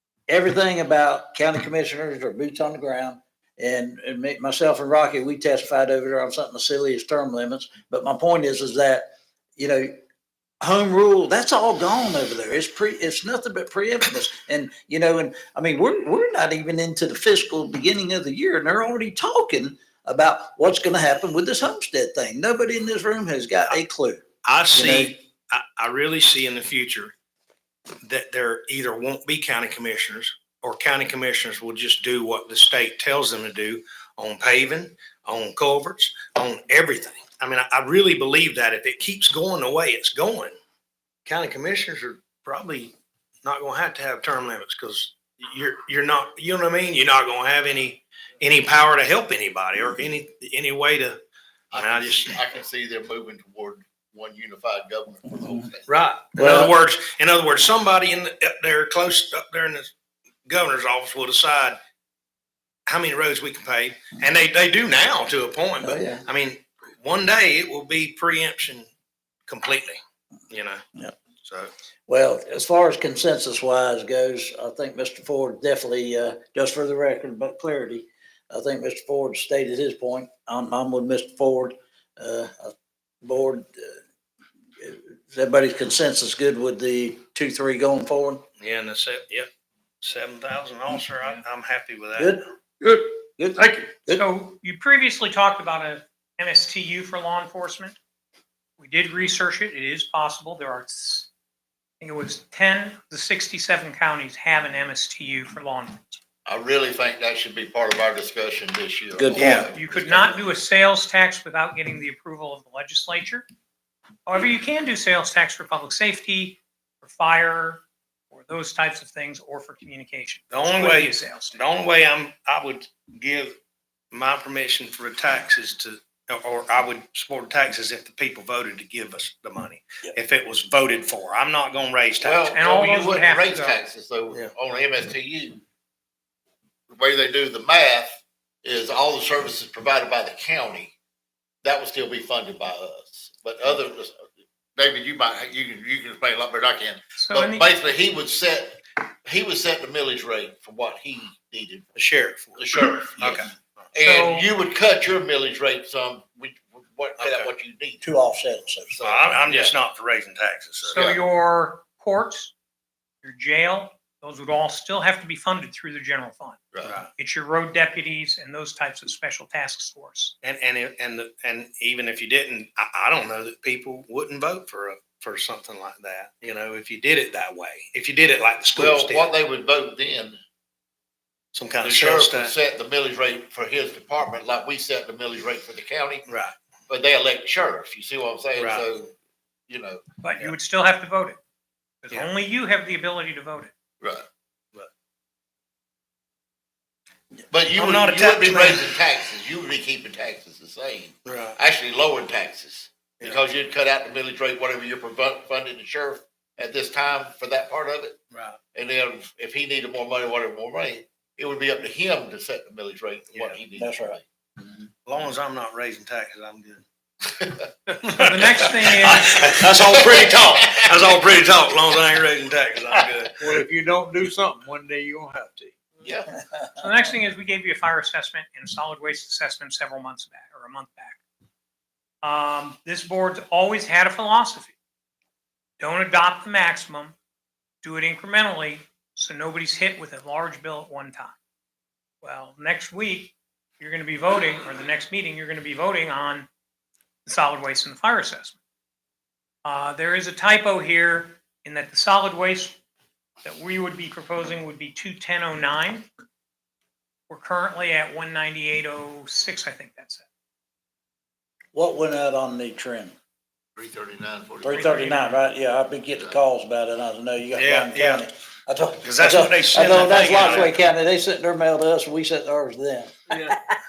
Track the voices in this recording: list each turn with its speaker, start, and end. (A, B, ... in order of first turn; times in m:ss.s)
0:00.3-0:09.9 A
0:10.6-0:24.2 A
0:24.4-0:27.1 B
0:24.7-0:25.1 A
0:28.0-0:40.5 B
0:41.2-0:51.2 B
0:51.7-0:55.9 C
0:51.7-0:52.4 B
0:55.9-0:59.9 B
0:56.4-0:56.7 A
1:00.5-1:01.8 B
1:02.9-1:08.9 B
1:05.8-1:06.2 A
1:09.5-1:10.0 B
1:10.5-1:10.8 B
1:11.4-1:11.7 B
1:12.1-1:24.0 A
1:24.8-1:28.4 A
1:28.6-1:29.5 B
1:30.0-1:32.3 B
1:32.2-1:32.4 A
1:32.8-1:34.1 D
1:33.4-1:34.2 A
1:34.1-1:38.0 E
1:38.8-1:41.3 E
1:42.0-1:46.2 E
1:46.4-1:50.5 C
1:49.2-1:49.7 A
1:49.3-1:49.7 B
1:49.7-1:53.4 E
1:54.2-2:01.7 E
2:00.5-2:03.6 B
2:04.1-2:12.6 B
2:12.2-2:15.6 C
2:12.5-2:13.8 E
2:16.9-2:20.9 C
2:21.6-2:24.2 C
2:24.7-2:31.9 C
2:27.1-2:27.7 E
2:32.0-2:33.9 B
2:32.6-2:38.0 C
2:34.0-2:34.5 E
2:37.2-2:37.5 B
2:38.0-2:39.0 A
2:38.9-2:39.7 C
2:39.0-2:41.0 B
2:40.8-2:41.2 C
2:40.9-2:42.5 E
2:43.2-2:46.6 E
2:46.8-2:47.1 B
2:47.2-2:50.3 E
2:50.4-2:59.3 B
2:58.7-3:00.4 C
3:01.5-3:02.5 B
3:01.8-3:06.2 C
3:06.3-3:06.5 B
3:06.9-3:09.1 C
3:08.6-3:08.8 B
3:09.7-3:10.0 C
3:10.2-3:11.4 E
3:12.0-3:13.7 E
3:14.0-3:14.2 C
3:17.5-3:28.2 C
3:17.8-3:18.9 B
3:21.2-3:21.6 B
3:28.3-3:28.6 B
3:28.7-3:34.2 C
3:33.3-3:33.6 B
3:33.8-3:34.2 A
3:35.0-3:36.8 B
3:37.2-3:37.6 C
3:38.0-3:43.4 B
3:38.1-3:39.3 E
3:39.7-3:40.9 C
3:43.4-3:46.0 D
3:46.0-3:46.3 C
3:46.7-3:51.2 E
3:52.2-3:54.8 E
3:55.8-3:57.2 E
3:57.8-4:01.4 E
4:02.2-4:06.5 E
4:07.2-4:08.6 E
4:09.6-4:12.8 E
4:13.4-4:16.1 E
4:17.3-4:20.3 E
4:21.7-4:23.1 A
4:23.8-4:25.2 C
4:24.6-4:33.5 A
4:24.7-4:25.4 E
4:27.5-4:28.2 B
4:29.0-4:30.7 B
4:33.3-4:33.6 D